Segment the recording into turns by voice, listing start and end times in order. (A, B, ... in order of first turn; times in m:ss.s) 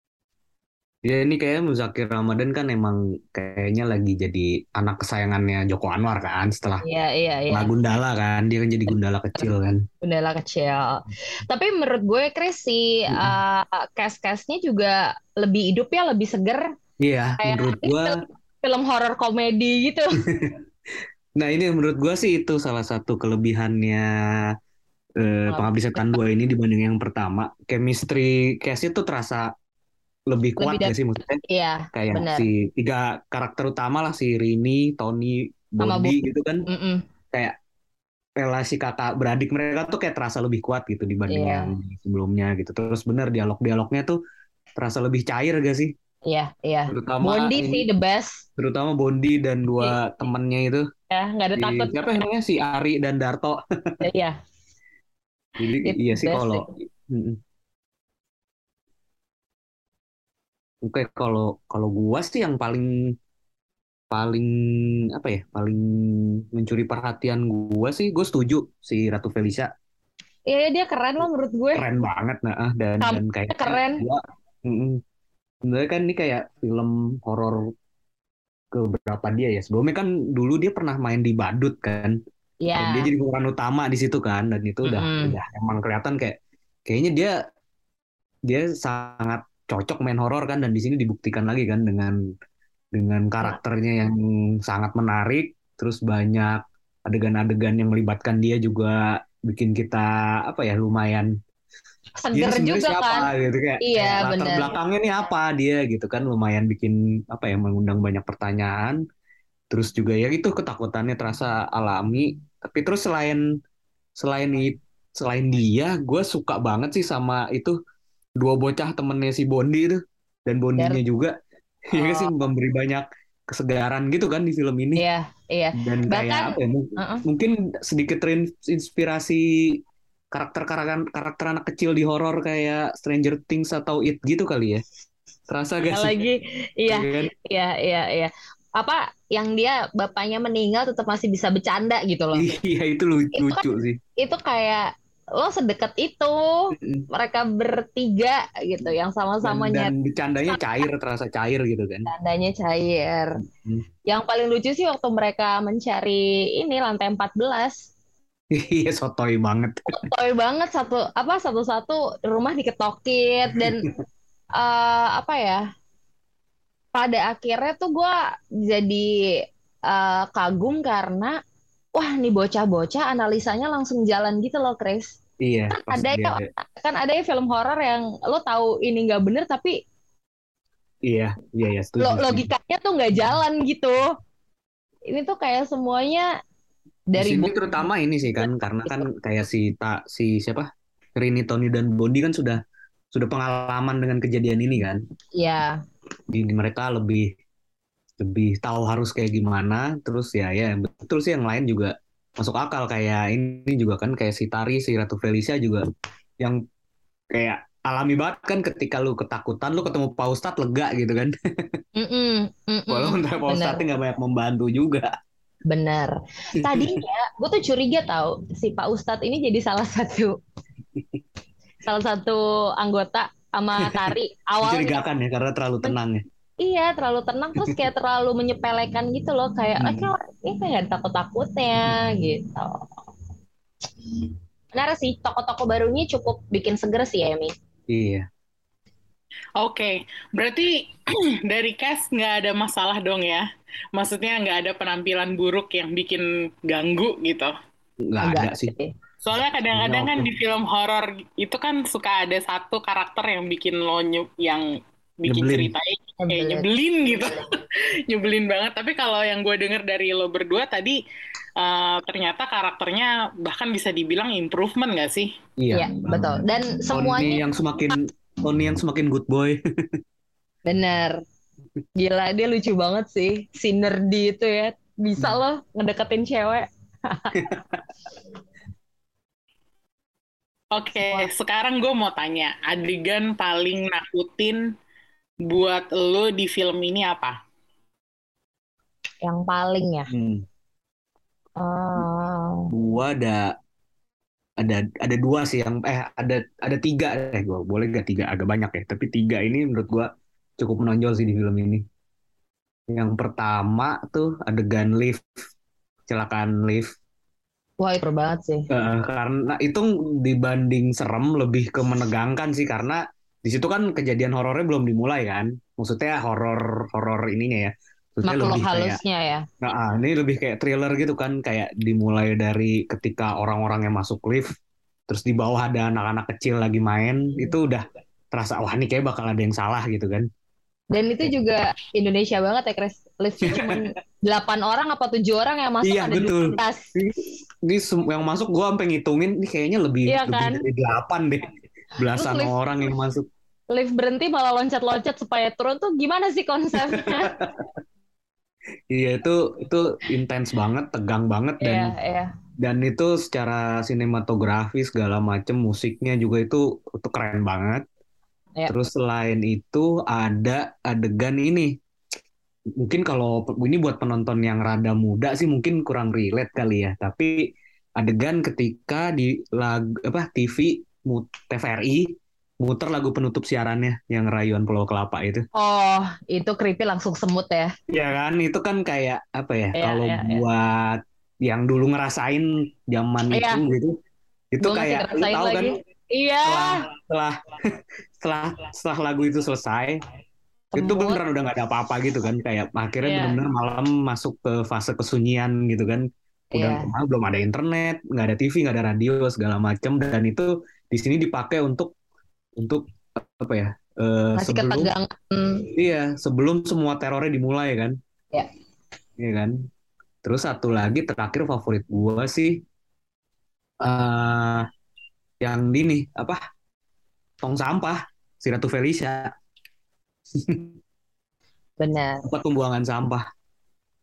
0:01.0-0:06.8 A
0:06.8-0:07.7 B
0:07.5-0:09.8 A
0:10.0-0:16.7 B
0:17.0-0:18.1 A
0:17.4-0:20.2 B
0:20.3-0:20.6 A
0:21.4-0:24.4 A
0:25.2-0:29.5 A
0:25.5-0:26.1 B
0:30.3-0:31.4 A
0:30.6-0:30.9 B
0:31.5-0:32.5 B
0:31.9-0:36.7 A
0:35.8-0:37.0 B
0:38.4-0:44.2 A
0:41.3-0:41.7 B
0:44.8-0:45.9 A
0:46.3-0:48.4 B
0:46.9-0:47.8 A
0:48.6-0:50.8 A
0:51.1-0:52.2 B
0:51.6-0:54.0 A
0:54.0-0:54.4 B
0:55.6-0:57.4 A
0:55.8-0:56.7 B
1:00.8-1:02.9 A
1:04.1-1:09.7 A
1:10.5-1:11.8 B
1:11.7-1:15.0 A
1:13.0-1:14.0 B
1:15.6-1:17.7 A
1:18.7-1:22.2 A
1:22.6-1:23.1 B
1:22.8-1:26.4 A
1:24.8-1:25.4 B
1:26.9-1:27.3 A
1:28.5-1:32.2 A
1:32.9-1:41.3 A
1:42.2-1:43.3 B
1:42.3-1:49.0 A
1:43.8-1:44.7 B
1:49.7-1:53.4 A
1:54.2-1:57.8 A
1:58.4-2:01.4 A
2:01.9-2:05.0 A
2:01.9-2:02.3 B
2:05.0-2:07.2 B
2:05.8-2:09.8 A
2:10.3-2:14.8 A
2:15.5-2:16.2 A
2:15.9-2:22.5 B
2:16.9-2:17.3 A
2:22.4-2:24.0 A
2:23.4-2:23.6 B
2:24.2-2:29.9 B
2:26.8-2:27.1 A
2:29.4-2:32.1 A
2:32.1-2:33.4 B
2:34.1-2:37.9 B
2:38.5-2:39.9 A
2:39.9-2:43.9 B
2:44.6-2:45.6 B
2:46.9-2:49.1 B
2:49.9-2:51.4 B
2:52.0-2:55.2 B
2:55.4-2:56.5 A
2:55.7-2:59.8 B
3:01.1-3:02.5 A
3:02.0-3:04.1 B
3:05.1-3:06.3 B
3:07.1-3:07.8 B
3:07.2-3:12.6 A
3:13.1-3:15.0 A
3:15.4-3:15.8 B
3:16.3-3:17.3 A
3:18.2-3:25.8 A
3:27.3-3:31.8 A
3:32.0-3:33.8 B
3:32.9-3:35.1 A
3:35.7-3:40.4 B
3:36.6-3:37.0 A
3:41.0-3:41.2 A
3:41.8-3:45.0 B
3:43.8-3:44.1 A
3:44.6-3:46.2 A
3:46.6-3:52.8 B
3:49.8-3:50.1 A
3:54.7-3:57.5 B
3:57.9-3:58.3 A
3:59.6-4:07.5 C
4:08.1-4:08.7 A
4:08.2-4:08.9 B
4:09.2-4:14.7 C
4:09.7-4:10.3 A
4:15.2-4:21.0 C
4:15.3-4:15.7 A
4:16.2-4:16.7 B
4:21.6-4:25.3 C
4:25.6-4:29.6 A
4:25.7-4:27.4 B
4:30.7-4:31.2 B
4:32.0-4:37.4 B
4:37.3-4:37.8 A
4:40.7-4:44.6 C
4:41.0-4:41.3 B
4:45.5-4:47.4 C
4:49.2-4:50.1 B
4:50.1-4:50.4 A
4:51.6-4:52.7 B
4:52.7-4:53.5 A
4:54.6-5:01.8 A
5:02.9-5:05.2 A
5:06.1-5:06.9 A
5:07.8-5:08.7 B
5:08.7-5:19.0 A
5:18.3-5:19.4 B
5:19.6-5:24.5 A
5:25.1-5:30.3 A
5:30.9-5:36.9 B
5:33.4-5:33.8 A
5:35.8-5:43.3 A
5:40.1-5:40.6 B
5:42.1-5:42.5 B
5:43.7-5:47.3 B
5:46.9-5:47.7 A
5:48.9-5:51.9 A
5:51.6-5:52.3 B
5:52.6-5:57.8 A
5:58.7-6:01.7 A
6:02.8-6:07.4 A
6:08.0-6:15.4 A
6:15.6-6:17.7 B
6:17.9-6:24.0 A
6:19.8-6:20.4 B
6:23.3-6:23.6 B
6:24.5-6:25.7 A
6:24.6-6:26.8 B
6:26.4-6:30.0 A
6:30.7-6:31.2 B
6:30.7-6:41.9 A
6:33.0-6:33.4 B
6:36.5-6:36.9 B
6:42.6-6:44.9 A
6:44.4-6:45.7 B
6:45.7-6:48.0 A
6:49.2-6:49.7 A
6:50.2-6:52.6 A
6:53.8-6:54.7 A
6:55.4-6:56.4 A
6:57.4-6:59.3 A
7:00.3-7:00.7 A
7:01.8-7:02.2 B
7:02.2-7:03.2 A